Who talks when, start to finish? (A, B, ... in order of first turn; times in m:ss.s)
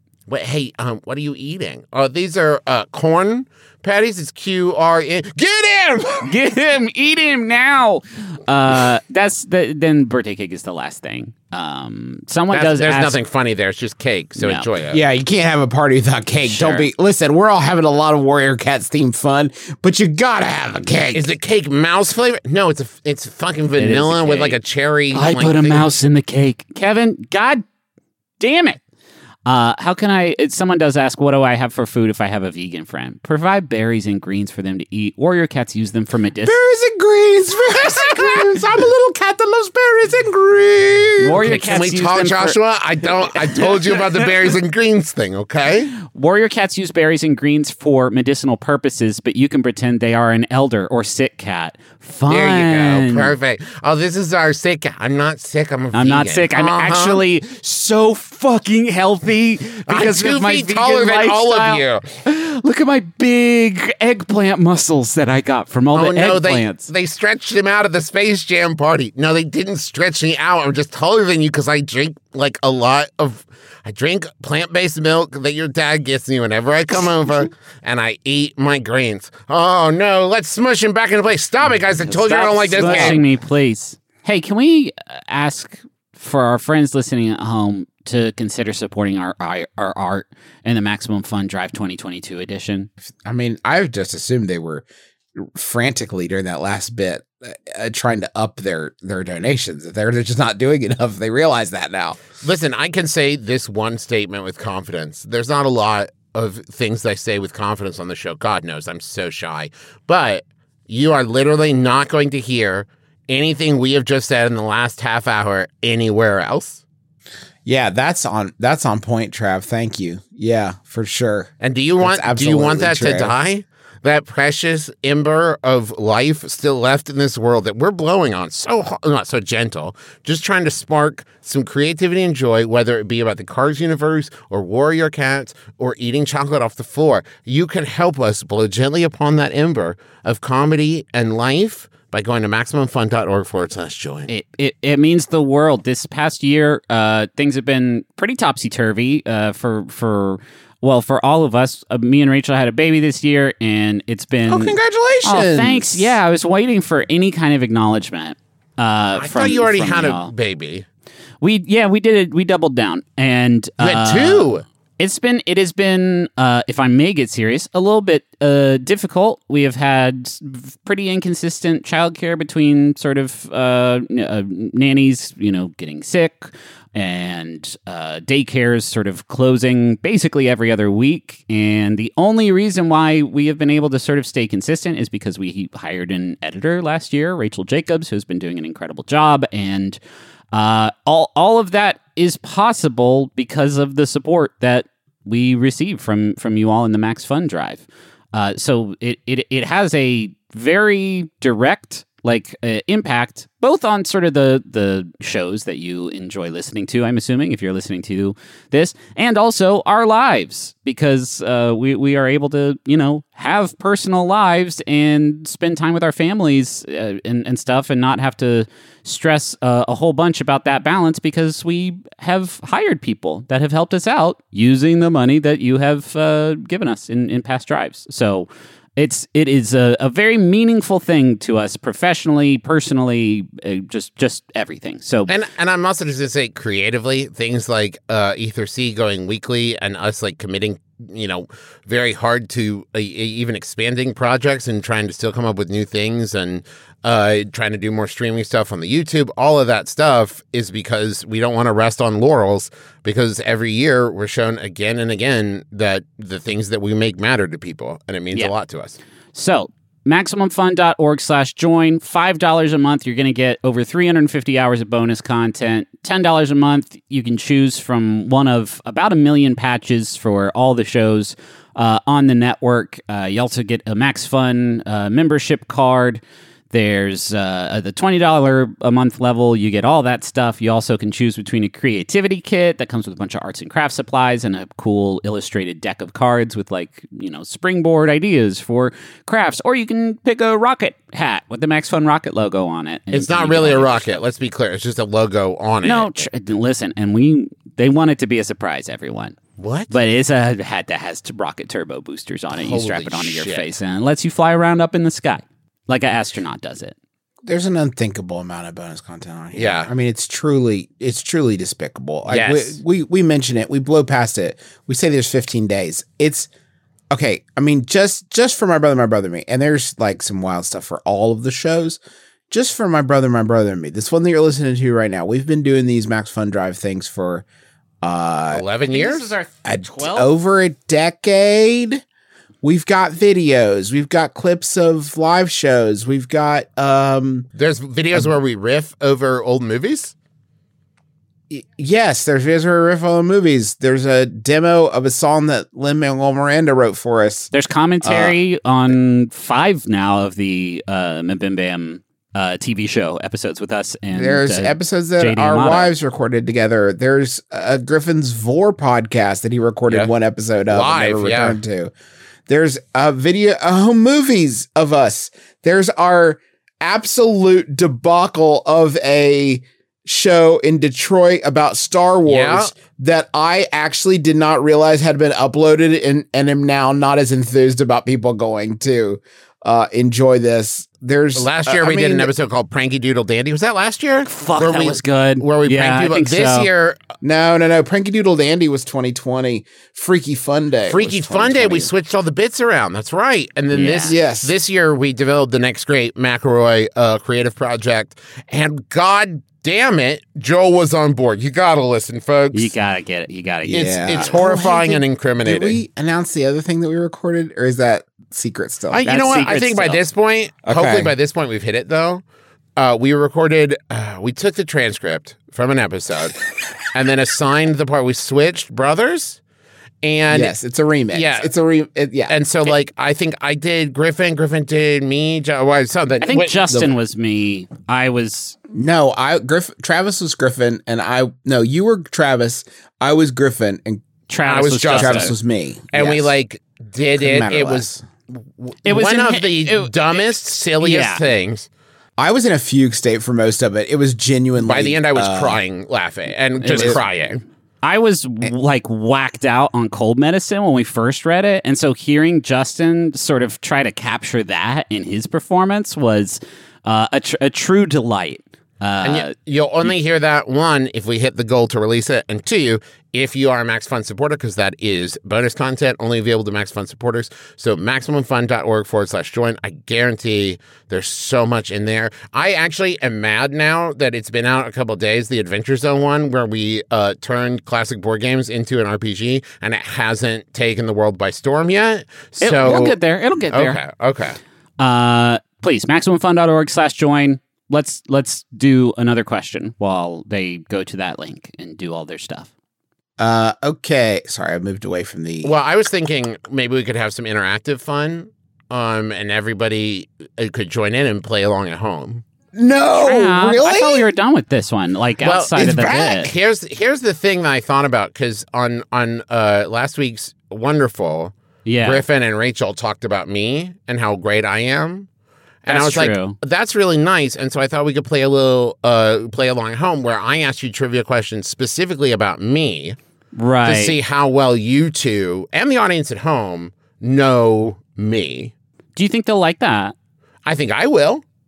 0:00.3-0:06.3 A
0:06.2-0:13.2 B
0:12.5-0:15.0 A
0:14.4-0:14.7 B
0:14.9-0:21.3 C
0:16.4-0:16.9 B
0:21.1-0:25.9 A
0:23.8-0:24.6 B
0:25.1-0:27.6 B
0:28.4-0:28.8 B
0:29.4-0:36.6 B
0:36.4-0:41.6 C
0:37.7-0:39.5 A
0:41.0-0:45.9 A
0:41.2-0:42.6 B
0:43.4-0:44.3 B
0:46.0-0:53.3 B
0:52.3-0:57.2 A
0:55.9-1:06.9 B
0:59.9-1:02.1 A
1:05.9-1:23.2 A
1:22.1-1:32.9 B
1:22.8-1:23.2 C
1:33.2-1:42.2 C
1:42.4-1:56.8 A
1:57.6-2:03.3 C
2:01.6-2:24.3 A
2:24.3-2:40.3 B
2:34.5-2:36.1 C
2:39.2-2:40.8 A
2:41.4-3:10.0 B
2:43.8-2:44.6 A
3:10.5-3:55.3 B
3:55.3-4:19.0 A
4:19.3-4:54.2 B
4:53.1-4:56.3 A
4:55.8-4:59.4 B
4:59.6-4:59.9 A
4:59.9-5:07.0 B
5:02.5-5:03.6 A
5:07.4-5:16.5 C
5:09.5-5:09.9 A
5:12.3-5:12.8 A
5:17.1-5:27.4 C
5:28.0-5:28.6 C
5:28.5-5:29.3 A
5:28.9-5:30.3 B
5:29.6-5:32.0 C
5:32.6-5:37.5 C
5:37.5-5:40.1 A
5:41.5-5:47.5 C
5:47.5-5:55.9 B
5:48.0-5:48.3 C
5:54.1-6:01.9 C
6:00.7-6:01.6 A
6:02.5-6:22.3 C
6:12.2-6:12.8 A
6:21.3-6:27.0 A
6:24.2-6:26.7 B
6:27.2-6:31.9 C
6:30.9-6:42.7 A
6:33.7-6:34.2 B
6:34.0-6:34.5 C
6:42.5-6:44.3 B
6:43.6-6:49.1 C
6:43.7-6:45.8 A
6:48.9-6:52.2 A
6:49.0-6:50.0 B
6:50.6-6:51.1 C
6:52.8-6:56.4 A
6:56.9-6:59.4 A
7:00.0-7:00.5 A
7:00.3-7:02.4 C
7:01.1-7:01.5 A
7:02.3-7:06.8 A
7:06.2-7:08.6 B
7:08.7-7:14.0 C
7:14.3-7:15.3 B
7:14.4-7:15.3 A
7:14.9-7:16.3 C
7:15.9-7:21.7 A
7:17.1-7:18.0 C
7:18.8-7:21.2 B
7:22.2-7:25.6 C
7:24.6-7:27.4 A
7:26.6-7:27.0 B
7:26.7-7:27.0 C
7:27.8-7:39.3 B
7:39.0-8:03.0 A
8:02.4-8:03.8 B
8:03.5-8:04.4 A
8:04.8-8:12.5 B
8:13.2-8:15.5 C
8:15.4-8:22.2 A
8:22.5-8:24.1 C
8:23.0-8:26.3 B
8:25.2-8:31.3 A
8:31.6-8:32.0 B
8:31.8-8:35.1 A
8:35.6-8:43.0 A
8:35.7-8:36.4 B
8:43.3-8:44.0 B
8:43.6-8:48.5 A
8:49.0-8:49.9 B
8:50.4-8:51.2 A